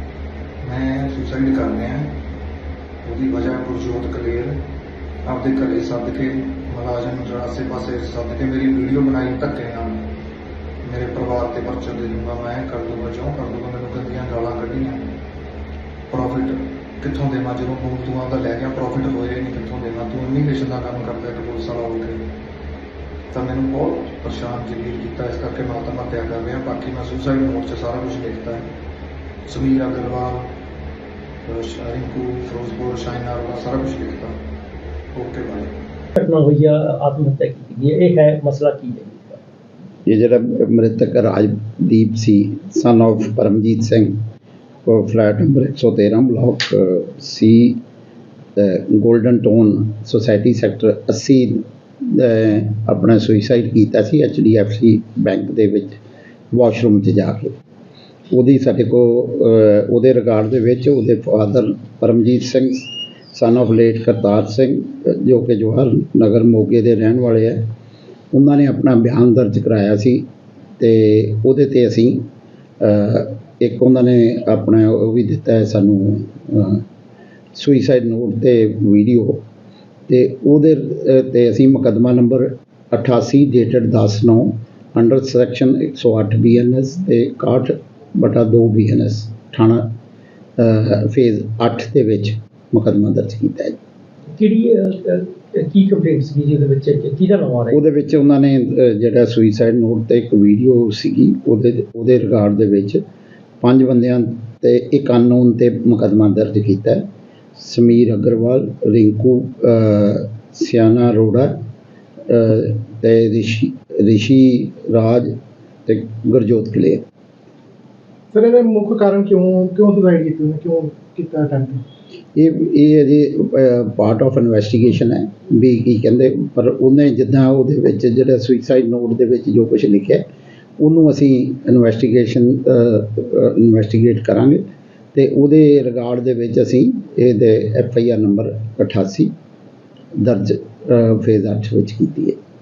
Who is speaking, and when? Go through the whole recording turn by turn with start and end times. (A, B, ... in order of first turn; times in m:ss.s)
0:00.6-0:02.2 A
0:03.0-0:04.6 A
0:05.2-0:10.1 A
0:10.8-0:15.1 A
0:16.1-0:22.3 A
0:23.3-0:28.7 A
0:29.5-0:30.5 A
0:31.4-0:34.4 A
0:35.1-0:35.7 A
0:36.2-0:39.4 B
0:40.1-0:44.2 C
0:44.8-0:47.8 C
0:48.6-0:56.0 C
0:56.5-0:57.6 C
0:58.3-1:07.7 C
1:08.3-1:10.3 C
1:10.8-1:12.3 C
1:12.8-1:16.8 C
1:17.6-1:19.4 C
1:20.1-1:29.9 C
1:30.6-1:33.8 C
1:34.3-1:37.8 B
1:37.7-1:43.0 C
1:43.6-1:51.5 C
1:52.3-1:57.0 C
1:58.3-2:01.8 D
2:02.4-2:10.3 C
2:10.8-2:14.6 C
2:15.1-2:19.3 C
2:20.2-2:22.4 C